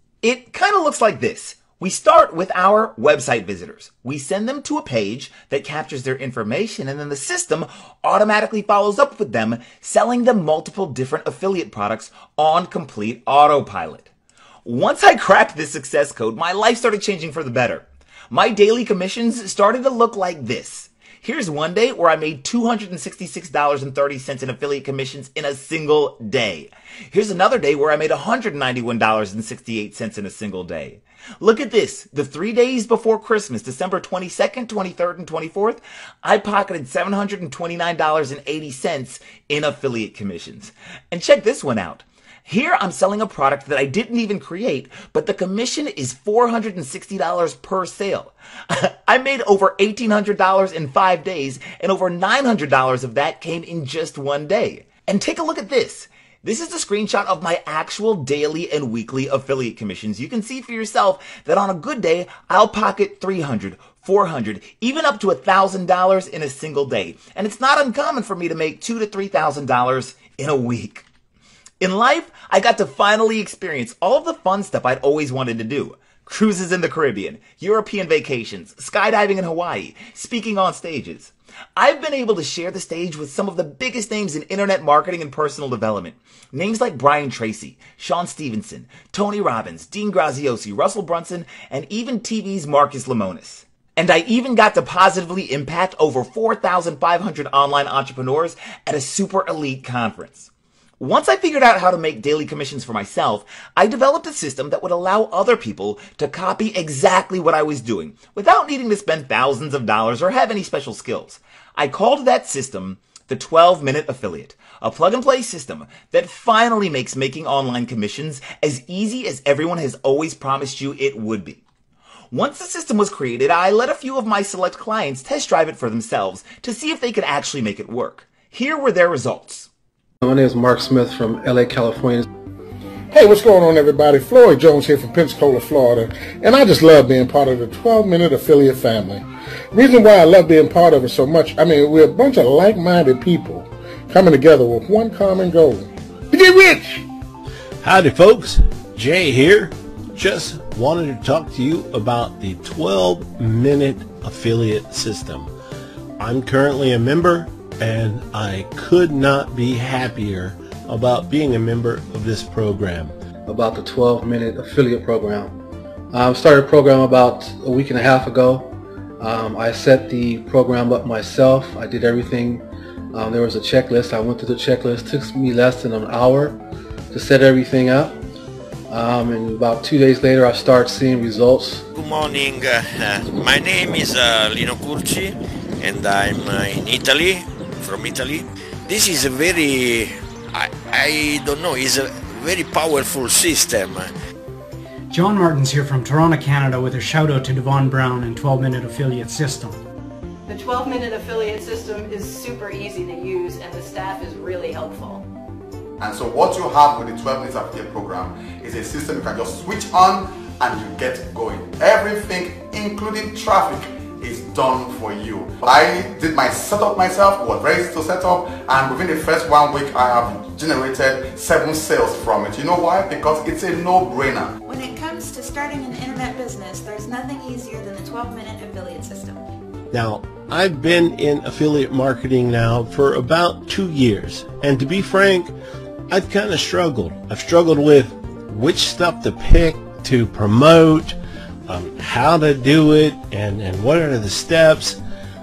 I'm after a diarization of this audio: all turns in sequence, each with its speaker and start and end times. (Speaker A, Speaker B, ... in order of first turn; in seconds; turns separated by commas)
Speaker A: 0.2-14.1, Speaker A: 14.6-71.0, Speaker A: 71.8-121.6, Speaker A: 122.3-129.7, Speaker B: 130.2-132.2, Speaker C: 133.1-147.0, Speaker D: 147.8-155.5, Speaker D: 156.2-163.1, Speaker B: 163.4-165.5, Speaker B: 166.1-176.6, Speaker B: 177.1-178.2, Speaker B: 178.9-181.8, Speaker E: 181.9-194.1, Speaker F: 195.1-199.8, Speaker G: 200.5-205.2, Speaker H: 206.0-224.5, Speaker I: 224.7-229.3, Speaker D: 229.9-235.5, Speaker D: 236.1-245.0